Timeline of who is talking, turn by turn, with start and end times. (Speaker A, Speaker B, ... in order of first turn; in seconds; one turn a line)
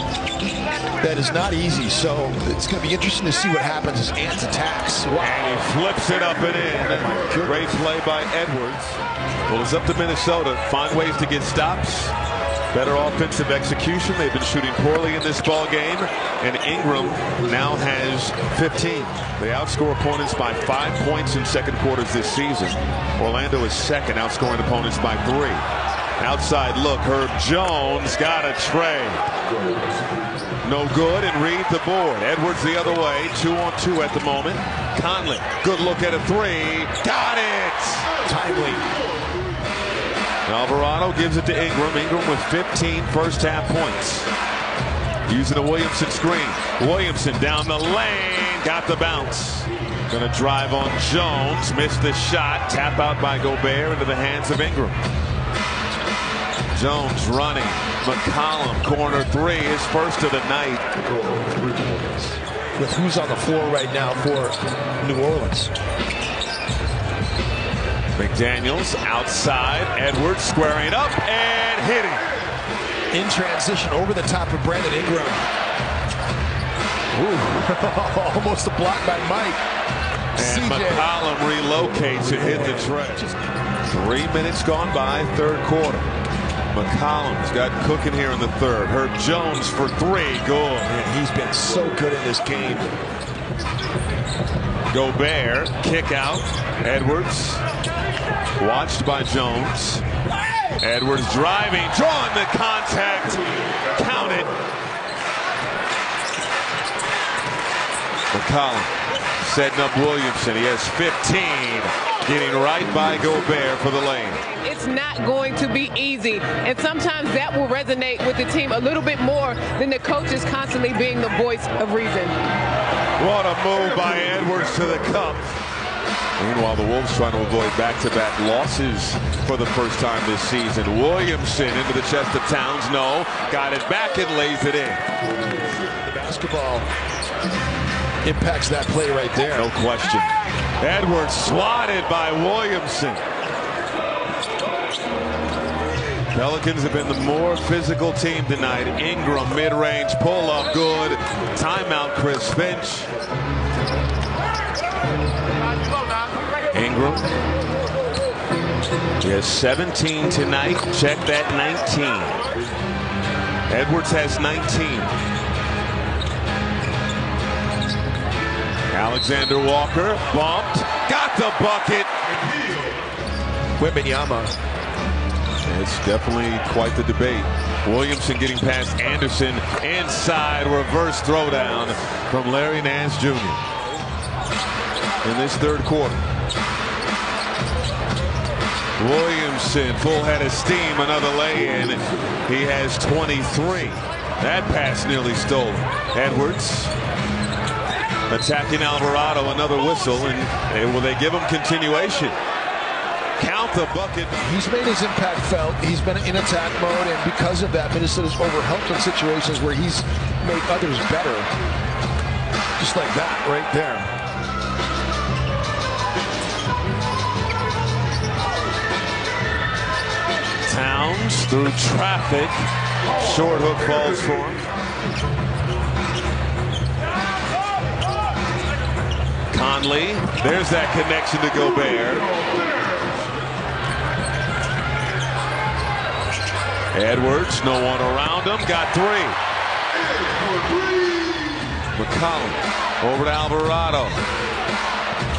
Speaker A: 1.0-5.7
Speaker B: 5.2-12.2
Speaker A: 7.0-7.8
Speaker B: 12.7-25.6
Speaker B: 26.2-29.3
Speaker B: 30.6-38.1
Speaker A: 38.2-38.9
Speaker B: 40.5-44.3
Speaker B: 45.3-55.0
Speaker B: 56.7-60.9
Speaker A: 61.9-62.2
Speaker A: 62.8-65.7
Speaker B: 68.2-72.3
Speaker A: 73.1-75.5
Speaker A: 77.1-79.6
Speaker A: 80.4-81.1
Speaker B: 80.4-83.3
Speaker A: 82.6-83.0
Speaker B: 83.9-86.1
Speaker B: 86.7-90.9
Speaker A: 90.9-93.0
Speaker B: 94.9-97.7
Speaker B: 98.6-100.0
Speaker B: 100.8-104.5
Speaker B: 108.3-114.4
Speaker C: 114.5-122.4
Speaker B: 123.2-125.5
Speaker B: 126.4-135.0
Speaker A: 136.0-136.9
Speaker A: 138.2-139.7
Speaker B: 139.5-143.2
Speaker B: 146.3-153.1
Speaker B: 156.7-157.2
Speaker B: 159.2-162.4
Speaker B: 163.7-165.1
Speaker B: 168.9-172.1
Speaker A: 173.8-174.5
Speaker B: 175.7-183.6
Speaker B: 185.2-186.2
Speaker B: 189.0-196.9
Speaker B: 198.3-202.4
Speaker B: 203.4-204.4
Speaker A: 204.4-211.5
Speaker A: 212.8-214.1
Speaker B: 220.7-224.7
Speaker B: 229.5-232.3
Speaker B: 236.9-239.4
Speaker B: 241.9-244.2